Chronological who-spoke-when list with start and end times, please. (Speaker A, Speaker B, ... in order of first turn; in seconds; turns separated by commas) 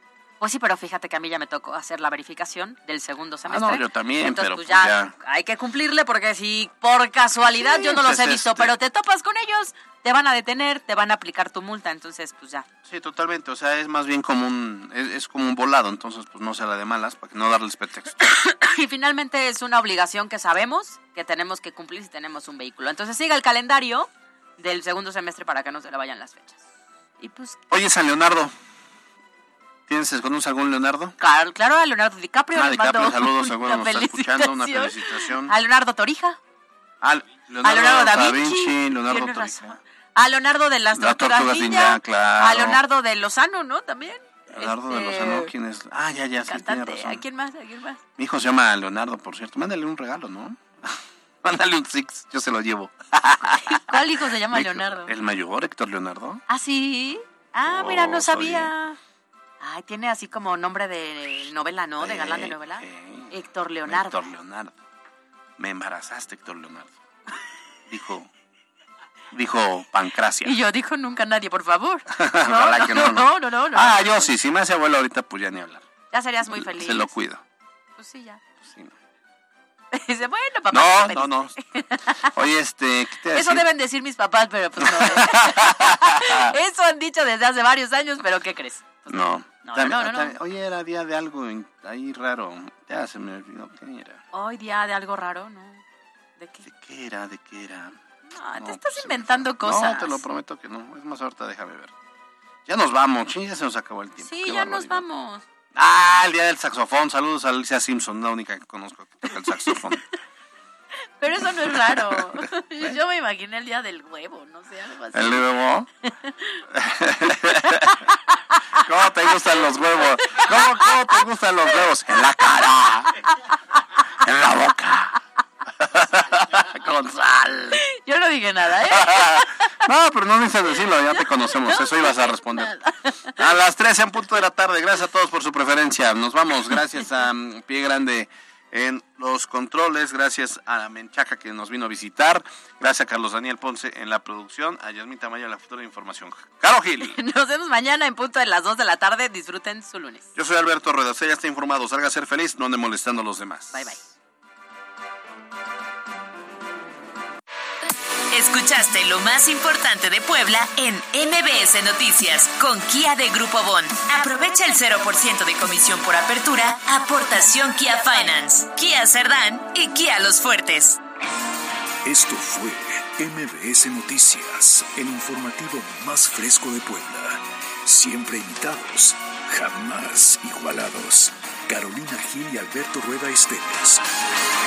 Speaker A: 0.4-12.7, Speaker B: 3.5-5.1, Speaker B: 7.5-8.7, Speaker B: 12.8-18.2, Speaker A: 18.2-26.6, Speaker A: 27.2-27.6, Speaker B: 27.7-28.5, Speaker B: 29.9-31.1, Speaker A: 31.2-36.4, Speaker B: 32.5-35.5, Speaker B: 37.0-39.8, Speaker A: 37.6-45.5, Speaker B: 40.9-42.8, Speaker B: 44.5-47.2, Speaker A: 46.5-48.0, Speaker B: 48.2-54.0, Speaker A: 53.7-55.1, Speaker B: 54.5-56.4, Speaker A: 56.5-59.0, Speaker B: 57.6-58.7, Speaker A: 59.6-64.3, Speaker B: 62.0-63.3, Speaker B: 63.9-64.7, Speaker B: 65.6-67.0, Speaker B: 67.9-68.3, Speaker B: 69.3-70.5, Speaker A: 70.4-74.3, Speaker B: 72.1-75.9, Speaker A: 76.1-77.1, Speaker B: 76.5-77.4, Speaker A: 78.0-78.4, Speaker B: 78.6-78.9, Speaker A: 79.9-82.3, Speaker B: 80.7-81.6, Speaker B: 82.3-83.7, Speaker A: 83.3-90.4, Speaker B: 84.8-86.5, Speaker B: 89.1-94.2, Speaker A: 94.3-95.8, Speaker A: 96.4-96.7, Speaker B: 96.6-98.0, Speaker A: 98.3-100.2, Speaker B: 98.6-101.9, Speaker B: 102.7-105.0, Speaker A: 104.2-105.4, Speaker B: 105.7-110.0, Speaker A: 111.2-115.5, Speaker B: 111.6-112.9, Speaker B: 115.1-115.9, Speaker A: 116.0-116.6, Speaker B: 116.7-118.0, Speaker A: 117.5-118.6, Speaker B: 118.8-123.2, Speaker B: 124.2-125.2, Speaker B: 125.8-127.8, Speaker A: 127.7-129.5, Speaker B: 128.8-132.7, Speaker A: 131.7-133.3, Speaker B: 133.3-147.2, Speaker A: 147.0-150.3, Speaker B: 150.3-153.9, Speaker A: 153.7-154.0, Speaker C: 158.3-171.0, Speaker D: 172.0-184.0